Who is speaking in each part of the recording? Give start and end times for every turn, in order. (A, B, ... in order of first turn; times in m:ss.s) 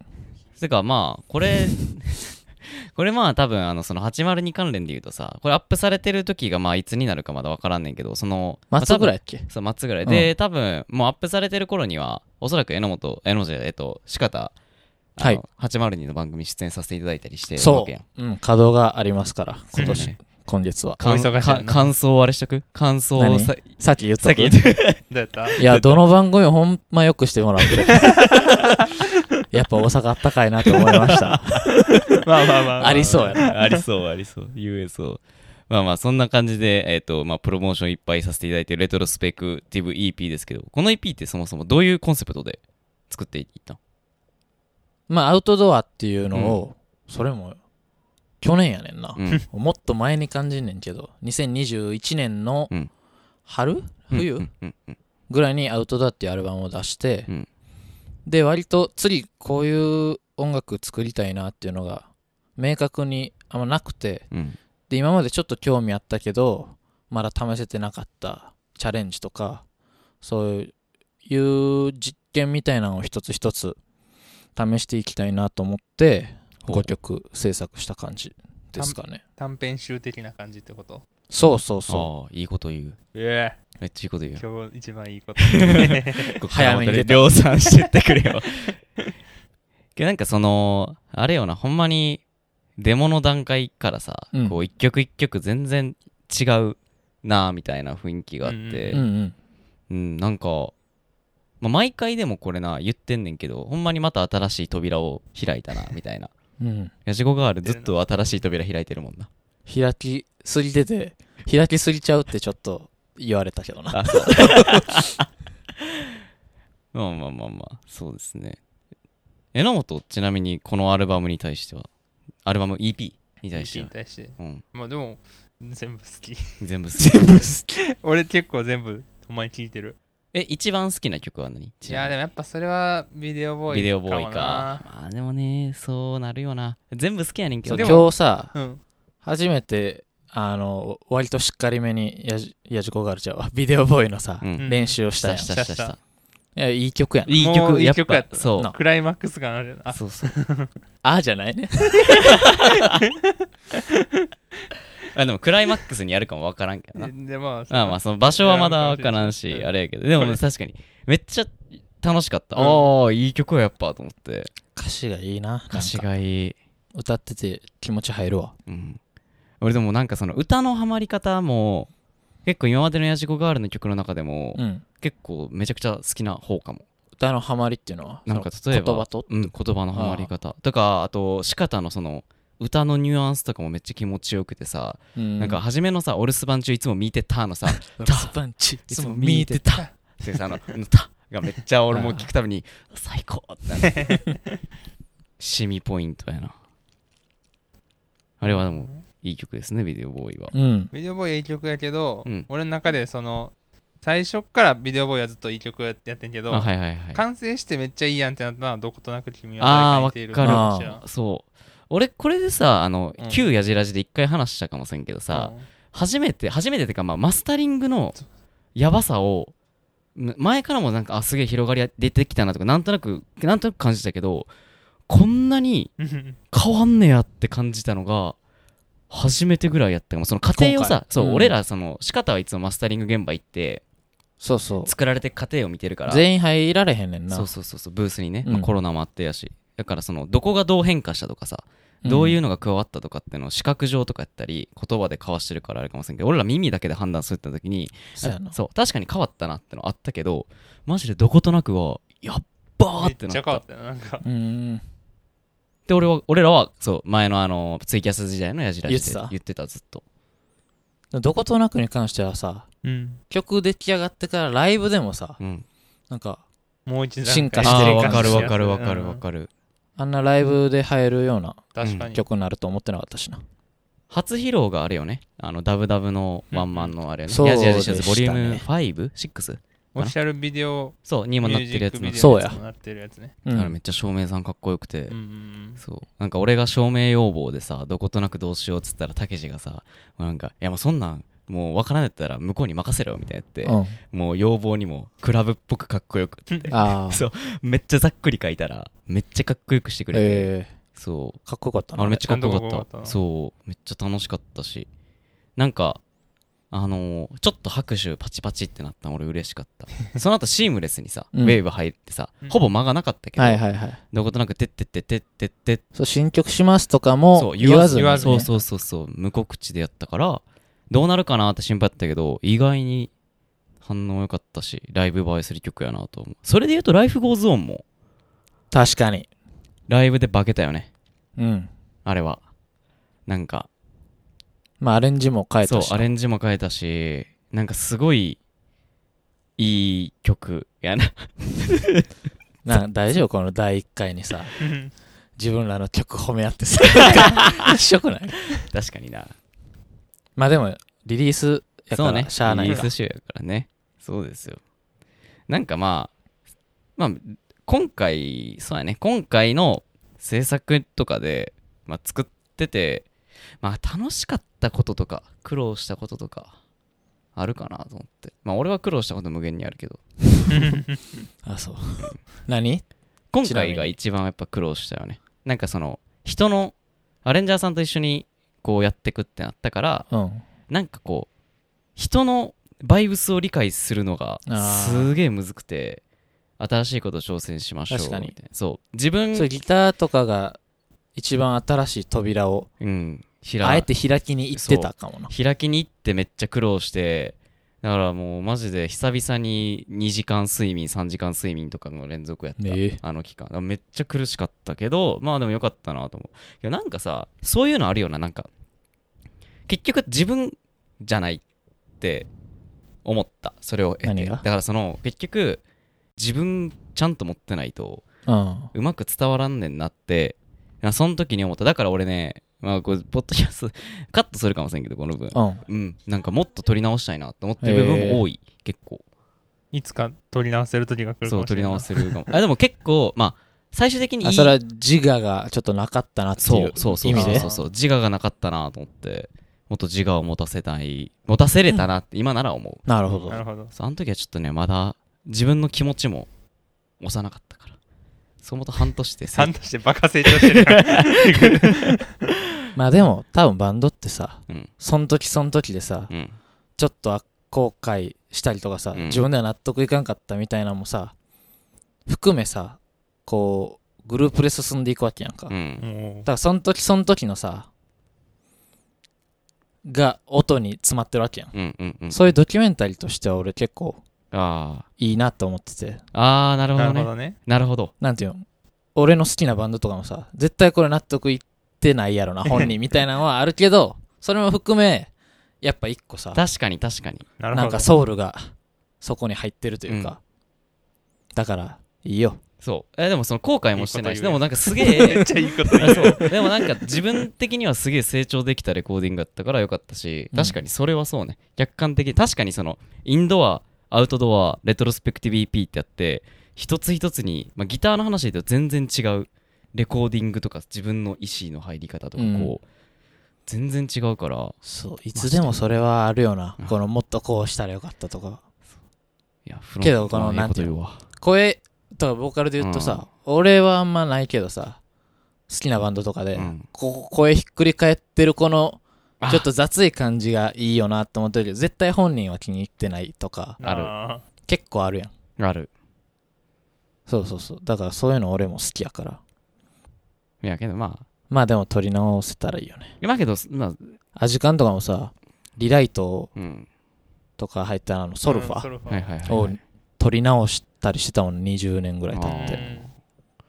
0:00.6-0:14.5 A
0:08.7-0:09.5 B
0:10.0-0:10.3 B
0:15.2-0:18.0 A
0:17.6-0:21.0 B
0:19.7-0:20.2 A
0:19.8-0:20.1 C
0:21.0-0:22.0 C
0:21.0-0:25.0 A
0:23.2-0:24.6 B
0:25.1-0:25.6 C
0:25.6-0:26.0 A
0:25.6-0:28.2 B
0:29.5-0:31.6 B
0:30.8-0:32.1 A
0:32.1-0:33.7 C
0:32.8-0:33.5 B
0:33.3-0:43.8 A
0:45.1-0:47.6 B
0:46.3-0:46.6 A
0:48.4-0:52.7 B
0:49.2-0:49.4 A
0:53.5-0:54.5 B
0:54.1-0:55.0 A
0:55.3-0:57.3 B
0:58.3-1:04.3 B
1:04.3-1:04.6 A
1:04.9-1:09.6 B
1:10.2-1:10.7 B
1:11.3-1:13.8 B
1:14.6-1:19.2 B
1:16.6-1:16.9 A
1:18.8-1:21.0 C
1:21.3-1:22.1 B
1:21.9-1:23.0 A
1:23.1-1:23.6 C
1:23.8-1:24.4 A
1:24.4-1:26.4 C
1:25.5-1:28.8 A
1:26.5-1:27.5 B
1:30.0-1:32.2 A
1:32.8-1:39.0 A
1:34.3-1:34.6 B
1:38.4-1:39.0 C
1:38.9-1:39.4 B
1:39.9-1:40.7 A
1:41.6-1:46.3 A
1:46.6-1:46.9 B
1:47.0-1:49.3 A
1:47.6-1:48.0 C
1:49.7-1:54.7 B
1:53.9-1:55.3 A
1:56.9-1:58.6 A
1:59.5-2:01.9 A
2:02.4-2:04.6 A
2:03.5-2:10.0 C
2:06.6-2:07.6 A
2:10.3-2:12.2 A
2:11.8-2:14.8 C
2:13.7-2:18.1 A
2:17.6-2:18.6 B
2:17.7-2:18.8 C
2:19.2-2:25.6 B
2:24.4-2:26.0 A
2:24.6-2:26.0 C
2:26.6-2:27.4 B
2:27.3-2:28.7 A
2:27.4-2:30.7 C
2:29.9-2:30.3 A
2:31.0-2:32.5 B
2:33.3-2:34.1 C
2:35.1-2:37.1 A
2:37.0-2:40.4 C
2:37.7-2:44.5 A
2:42.6-2:42.9 C
2:44.8-2:46.1 B
2:45.7-2:46.6 A
2:46.9-2:48.6 B
2:48.7-2:49.0 A
2:49.6-2:51.9 A
2:52.4-2:56.8 A
2:54.6-2:54.8 B
2:57.2-3:00.3 B
2:58.3-3:08.3 A
3:05.2-3:05.6 B
3:07.7-3:09.8 B
3:08.9-3:14.2 A
3:11.9-3:12.3 B
3:13.9-3:14.2 C
3:15.4-3:16.5 A
3:18.4-3:20.5 A
3:18.4-3:19.0 C
3:20.5-3:20.9 B
3:20.9-3:31.0 C
3:26.5-3:27.2 A
3:29.6-3:38.2 A
3:30.4-3:31.0 B
3:33.2-3:33.5 C
3:35.3-3:35.6 C
3:38.8-3:39.5 A
3:40.2-3:44.5 A
3:45.1-3:45.9 A
3:46.0-3:46.4 C
3:46.5-3:48.4 A
3:49.1-3:53.8 A
3:50.5-3:51.6 B
3:54.4-3:55.0 B
3:54.8-3:56.3 A
3:56.1-3:57.5 B
3:57.3-4:13.6 A
3:58.4-3:58.7 B
4:02.0-4:02.4 B
4:08.2-4:08.6 B
4:13.0-4:14.2 C
4:14.2-4:14.8 B
4:15.9-4:20.0 A
4:18.9-4:19.3 B
4:21.1-4:22.7 B
4:22.8-4:23.2 C
4:23.3-4:25.4 B
4:25.4-4:25.7 A
4:26.1-4:26.4 B
4:26.9-4:29.2 C
4:27.2-4:28.6 B
4:27.6-4:29.5 A
4:30.0-4:33.4 B
4:31.7-4:32.2 C
4:31.8-4:32.1 A
4:34.1-4:40.2 A
4:36.5-4:37.0 C
4:37.3-4:38.7 B
4:40.0-4:43.4 C
4:41.0-4:42.3 A
4:42.2-4:42.6 B
4:43.4-4:43.8 B
4:43.5-4:45.2 A
4:45.1-4:45.8 C
4:45.8-5:01.4 A
4:53.6-4:54.0 B
4:56.7-4:57.2 B
5:00.1-5:00.7 B
5:01.4-5:02.3 B
5:02.0-5:04.9 A
5:02.3-5:03.2 C
5:05.6-5:06.0 A
5:06.7-5:15.8 A
5:11.3-5:11.6 B
5:13.4-5:14.0 B
5:16.0-5:18.5 B
5:17.3-5:23.1 A
5:17.9-5:18.6 C
5:23.8-5:27.8 A
5:28.7-5:29.3 B
5:29.9-5:30.9 A
5:31.4-5:31.7 B
5:32.0-5:32.4 A
5:33.3-5:33.7 A
5:34.8-5:36.1 B
5:35.6-5:38.4 A
5:39.6-5:42.0 A
5:42.6-5:44.5 B
5:44.6-5:44.9 C
5:45.4-5:48.4 B
5:48.6-5:49.3 A
5:50.4-5:52.9 B
5:51.9-5:54.6 A
5:55.5-5:56.1 A
5:57.0-6:03.1 A
6:03.6-6:06.5 A
6:07.4-6:10.0 A
6:10.5-6:11.0 C
6:11.4-6:12.8 B
6:13.3-6:20.1 A
6:13.4-6:14.0 B
6:20.1-6:20.4 B
6:20.7-6:21.3 A
6:22.0-6:26.0 A
6:24.5-6:25.1 B
6:26.6-6:29.5 A
6:27.9-6:28.4 B
6:29.3-6:30.6 B
6:31.2-6:32.7 B
6:32.8-6:33.9 A
6:33.6-6:35.3 B
6:34.5-6:48.5 A
6:42.6-6:43.0 B
6:49.7-6:51.4 A
6:52.0-6:52.3 A
6:53.0-6:55.6 A
6:54.0-6:54.5 B
6:56.2-6:58.0 A
6:58.3-6:58.7 B
6:58.7-7:09.0 A
7:05.3-7:05.6 B
7:07.6-7:08.2 B
7:09.7-7:11.9 C
7:11.2-7:14.6 A
7:14.2-7:17.5 B
7:16.4-7:26.3 A
7:17.0-7:17.6 C
7:22.9-7:23.4 B
7:23.3-7:23.7 C
7:27.0-7:27.8 A
7:28.4-7:29.6 A
7:29.3-7:32.1 C
7:32.8-7:36.1 B
7:36.1-7:36.4 A
7:36.8-7:41.1 B
7:38.9-7:39.3 A
7:42.1-7:45.6 B
7:45.5-7:45.8 A
7:45.8-7:46.3 C
7:46.2-7:47.7 B
7:49.8-7:51.5 B
7:51.5-7:52.4 A
7:52.1-7:54.0 B
7:54.3-7:54.9 A
7:55.0-7:56.0 B
7:56.1-7:57.9 A
7:56.8-7:57.4 C
7:58.0-7:58.4 B
7:59.0-8:05.1 B
8:05.6-8:06.4 B
8:06.3-8:07.2 A
8:07.4-8:07.9 C
8:07.5-8:08.5 B
8:09.0-8:10.2 B
8:09.9-8:10.2 A
8:11.4-8:12.4 B
8:12.6-8:15.3 A
8:13.8-8:16.3 C
8:14.9-8:15.3 B
8:15.8-8:32.6 A
8:15.8-8:16.3 B
8:20.3-8:20.6 B
8:32.2-8:32.6 B
8:33.5-8:34.6 A
8:34.6-8:38.4 B
8:35.1-8:35.6 A
8:39.5-8:41.0 A
8:39.8-8:44.8 B
8:42.6-8:43.0 A
8:45.5-8:53.6 B
8:46.3-8:46.7 A
8:49.2-8:49.5 A
8:53.6-8:54.2 C
8:53.6-8:53.9 A
8:54.5-8:55.1 B
8:55.4-8:55.7 A
8:57.1-8:59.2 B
9:00.4-9:01.0 A
9:01.3-9:03.0 B
9:03.0-9:04.0 A
9:04.2-9:06.3 B
9:06.4-9:06.7 A
9:07.4-9:08.7 B
9:08.2-9:09.1 C
9:08.9-9:09.6 A
9:09.2-9:12.6 B
9:12.1-9:12.9 A
9:12.2-9:12.9 C